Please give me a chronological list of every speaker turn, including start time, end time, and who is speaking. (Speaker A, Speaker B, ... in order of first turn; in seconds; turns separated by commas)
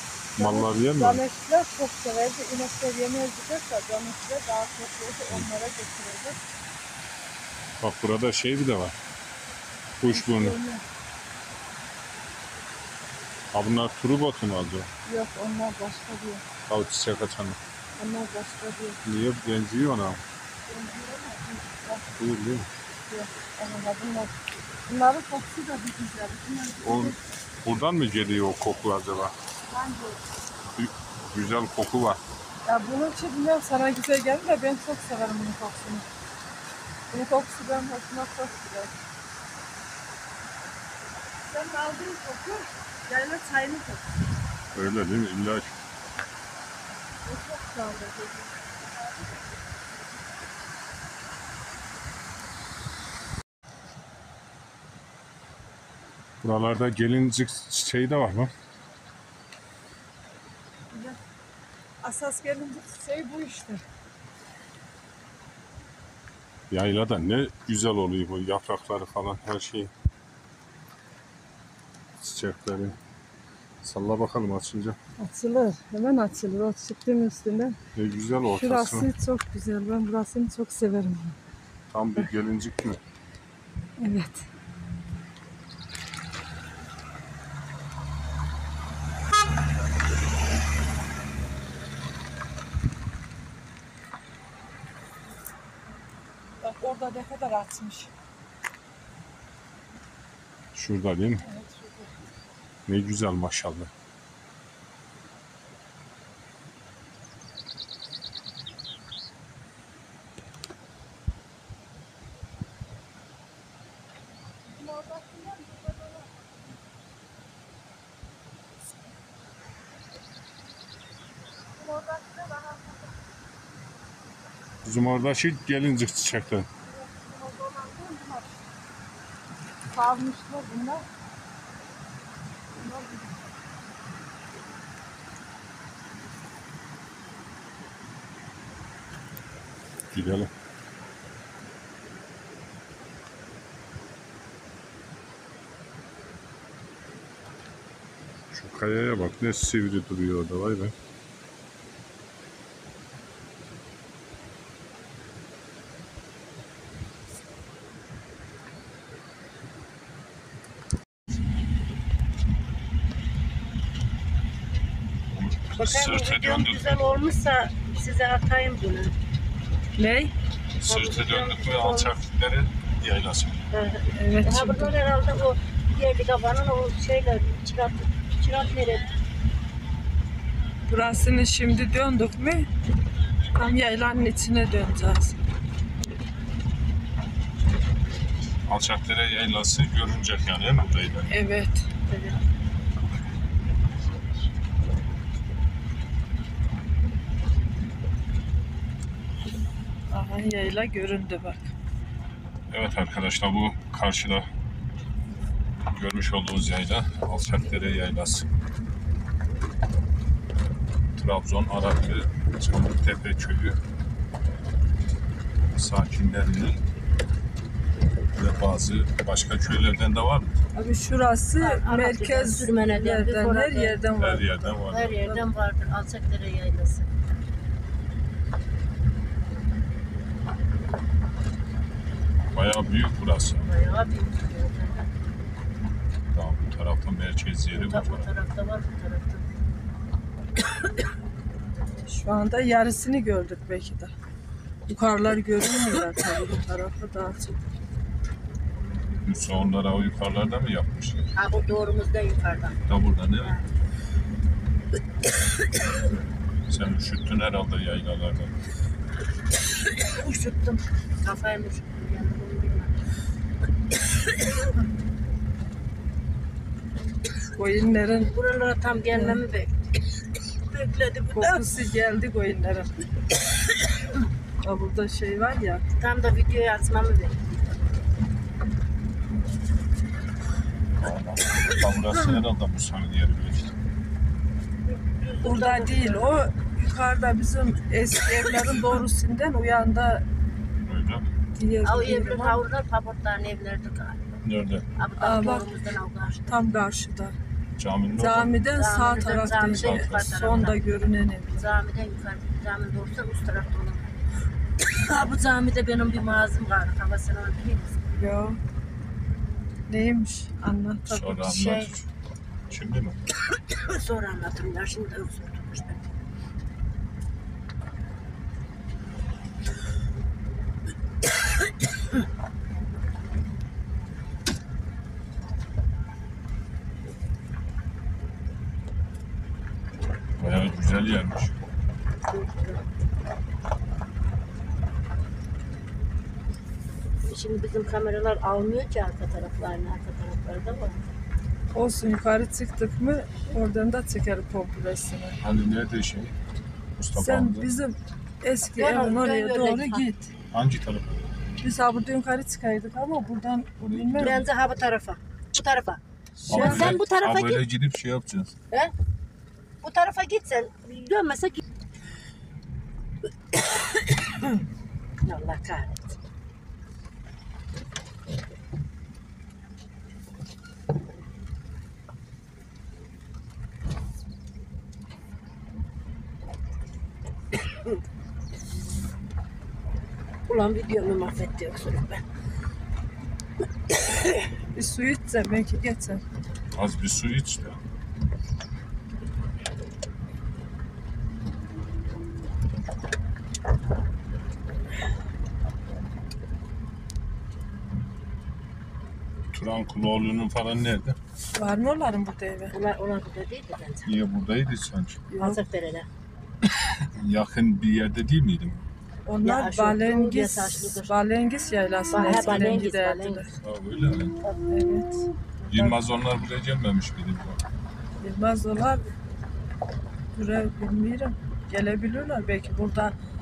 Speaker A: 0.4-1.2, Speaker B: 0.4-6.4, Speaker A: 7.8-8.9, Speaker A: 10.0-10.6, Speaker B: 10.1-10.8, Speaker A: 13.5-14.9, Speaker B: 15.1-16.4, Speaker A: 16.7-17.6, Speaker B: 18.0-19.0, Speaker A: 19.0-20.2, Speaker B: 20.7-22.1, Speaker A: 22.1-22.7, Speaker B: 23.1-24.3, Speaker B: 24.9-27.2, Speaker A: 26.8-29.3, Speaker B: 29.7-30.2, Speaker A: 30.7-32.2, Speaker B: 32.6-36.0, Speaker B: 37.1-38.9, Speaker B: 41.4-44.1, Speaker A: 44.7-45.7, Speaker B: 47.2-48.8, Speaker A: 56.4-58.5, Speaker B: 60.9-61.2, Speaker B: 62.0-63.8, Speaker A: 66.7-69.9, Speaker A: 72.2-73.0, Speaker A: 73.8-75.0, Speaker B: 75.2-77.8, Speaker A: 77.9-79.1, Speaker B: 78.4-81.4, Speaker A: 81.9-83.0, Speaker B: 84.0-84.5, Speaker B: 96.6-98.1, Speaker A: 100.7-101.4, Speaker B: 101.4-102.1, Speaker A: 102.9-103.9, Speaker B: 114.8-116.4, Speaker B: 121.8-123.1, Speaker A: 124.8-126.7, Speaker B: 126.9-128.5, Speaker B: 129.9-131.0, Speaker B: 132.8-133.5, Speaker A: 140.1-140.5, Speaker A: 148.5-150.9, Speaker A: 165.3-167.1, Speaker C: 165.8-169.1, Speaker B: 170.0-170.3, Speaker A: 170.8-173.6, Speaker C: 170.8-172.2, Speaker C: 173.7-179.1, Speaker B: 174.1-174.9, Speaker B: 180.9-182.7, Speaker B: 183.5-185.4, Speaker A: 188.7-191.3, Speaker B: 191.3-191.9, Speaker C: 192.1-192.4, Speaker B: 200.1-201.7, Speaker A: 202.7-204.4, Speaker A: 205.9-208.5, Speaker A: 211.2-213.8, Speaker A: 215.7-216.8, Speaker A: 218.3-220.5, Speaker B: 220.7-224.6, Speaker C: 221.6-227.1, Speaker A: 224.2-225.4, Speaker A: 232.5-233.7, Speaker C: 233.6-235.1, Speaker A: 236.3-238.3, Speaker C: 237.7-239.4, Speaker B: 242.1-244.1, Speaker B: 244.9-247.6, Speaker A: 249.2-251.3, Speaker C: 251.3-252.8, Speaker A: 252.9-253.5, Speaker C: 253.4-253.6, Speaker A: 256.7-258.5, Speaker C: 259.9-262.9, Speaker B: 267.5-268.3, Speaker C: 268.3-269.7, Speaker B: 269.1-269.4, Speaker C: 270.7-271.6, Speaker B: 271.3-272.9, Speaker B: 274.6-275.8, Speaker C: 276.0-277.8, Speaker A: 281.0-283.7, Speaker C: 285.1-286.4, Speaker B: 285.4-290.2, Speaker A: 290.8-291.2, Speaker B: 291.5-292.6, Speaker C: 291.8-294.2, Speaker A: 294.4-294.9, Speaker C: 295.0-296.4, Speaker B: 295.2-295.7, Speaker B: 296.4-297.4, Speaker A: 297.8-298.6, Speaker B: 298.1-301.7, Speaker C: 298.7-300.9, Speaker A: 299.7-300.5, Speaker C: 301.5-304.1, Speaker C: 304.8-308.0, Speaker B: 308.1-308.6, Speaker B: 309.9-311.6, Speaker A: 311.1-312.0, Speaker C: 311.4-312.0, Speaker A: 312.7-313.2, Speaker C: 313.8-316.0, Speaker A: 330.4-331.5, Speaker C: 332.2-332.8, Speaker C: 337.3-341.0, Speaker B: 341.7-345.4, Speaker A: 345.4-346.3, Speaker A: 346.9-347.7, Speaker B: 347.1-350.3, Speaker C: 348.6-350.1, Speaker A: 350.5-351.1, Speaker B: 351.6-354.4, Speaker A: 353.8-354.4, Speaker C: 354.2-357.7, Speaker A: 356.4-358.5, Speaker B: 356.5-357.0, Speaker C: 359.8-361.6, Speaker C: 365.2-366.1, Speaker C: 380.5-382.2, Speaker B: 384.7-386.2, Speaker A: 386.7-387.8, Speaker A: 399.5-401.1, Speaker B: 401.5-402.7, Speaker C: 402.7-404.1, Speaker A: 404.1-405.2, Speaker B: 405.3-405.6, Speaker C: 405.4-406.1, Speaker A: 406.8-408.8, Speaker B: 409.2-413.5, Speaker C: 409.4-411.1, Speaker C: 412.1-413.6, Speaker A: 412.4-412.7, Speaker A: 413.6-414.4, Speaker B: 414.7-415.9, Speaker A: 415.7-417.6, Speaker B: 418.2-419.1, Speaker B: 420.3-423.1